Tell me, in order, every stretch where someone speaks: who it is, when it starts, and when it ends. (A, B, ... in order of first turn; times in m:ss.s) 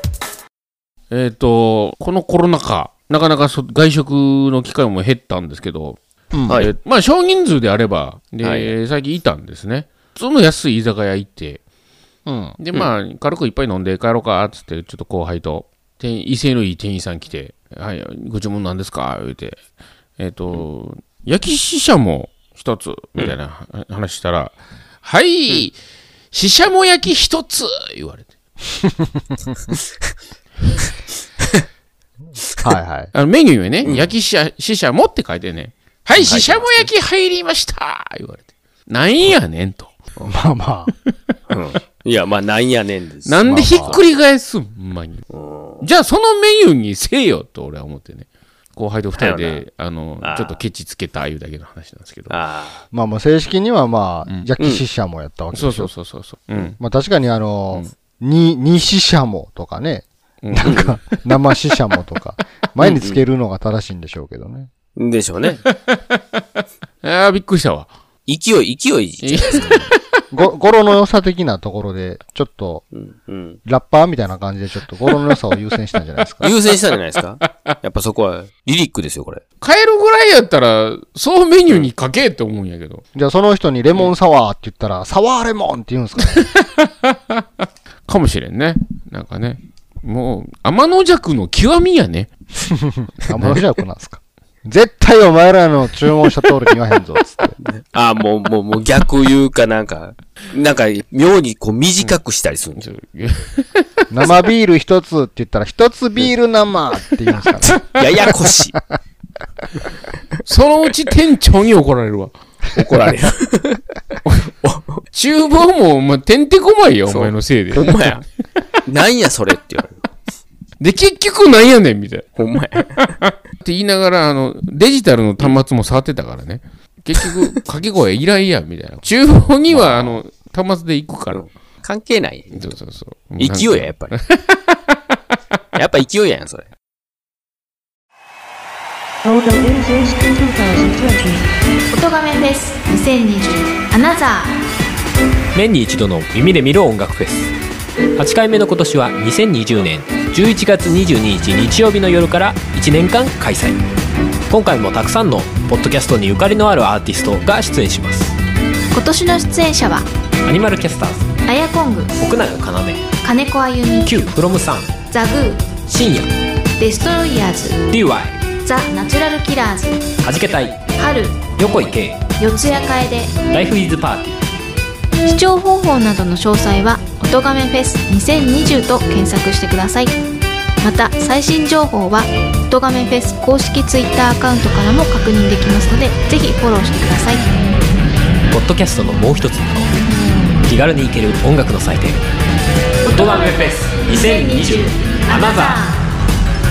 0:01.1-0:06.0 A
0:06.3-0:06.6 B
0:06.6-0:11.6 A
0:08.4-0:08.8 C
0:12.3-0:12.6 B
0:12.6-0:19.6 A
0:20.2-0:25.8 A
0:26.3-0:28.3 A
0:32.6-0:33.1 B
0:33.1-0:40.0 A
0:33.8-0:34.1 C
0:36.1-0:36.9 C
0:40.2-0:40.9 B
0:41.1-0:41.4 A
0:41.5-0:44.0 C
0:43.2-0:45.2 A
0:43.4-0:44.0 B
0:45.3-0:45.9 C
0:45.8-0:52.3 A
0:49.1-0:49.6 C
0:50.2-0:50.6 C
0:52.3-0:52.8 C
0:52.9-0:55.9 B
0:55.5-0:56.8 A
0:56.8-1:04.7 B
1:00.4-1:00.7 A
1:00.6-1:01.0 C
1:02.8-1:03.2 C
1:05.0-1:05.6 C
1:05.6-1:06.2 A
1:07.0-1:07.9 A
1:08.3-1:09.7 C
1:09.2-1:10.2 A
1:10.3-1:12.9 B
1:12.9-1:13.6 C
1:13.6-1:16.5 B
1:16.4-1:19.4 C
1:19.6-1:23.0 A
1:23.2-1:26.4 B
1:26.4-1:32.3 A
1:32.6-1:37.6 B
1:33.3-1:33.6 A
1:37.6-1:42.8 C
1:42.8-1:44.1 A
1:44.1-1:47.8 B
1:47.8-1:48.8 C
1:50.4-1:53.2 A
1:52.8-1:53.8 C
1:54.5-1:55.0 C
1:55.1-1:58.1 A
1:57.1-1:58.3 C
1:58.8-2:00.0 C
2:00.8-2:02.4 A
2:02.4-2:03.1 C
2:03.0-2:11.4 A
2:07.2-2:07.5 C
2:09.7-2:10.2 C
2:11.3-2:12.8 C
2:12.5-2:15.0 A
2:13.4-2:14.2 C
2:15.8-2:16.7 C
2:19.2-2:21.4 D
2:21.9-2:24.5 E
2:25.6-2:27.5 F
2:28.2-2:33.8 F
2:34.5-2:38.3 F
2:38.9-2:40.1 E
2:40.4-2:41.3 F
2:41.5-2:42.2 E
2:42.2-2:43.0 F
2:43.2-2:44.1 E
2:44.1-2:44.9 F
2:45.1-2:45.7 E
2:45.9-2:46.3 F
2:46.8-2:47.8 E
2:48.1-2:48.4 F
2:48.6-2:50.1 E
2:50.3-2:50.8 F
2:51.0-2:51.5 E
2:51.6-2:52.2 F
2:52.4-2:53.4 E
2:53.6-2:54.4 F
2:55.2-3:00.2 E
3:00.8-3:07.5 E
3:08.5-3:09.9 F
3:10.7-3:12.2 F
3:13.0-3:16.0 E
3:13.3-3:15.7 F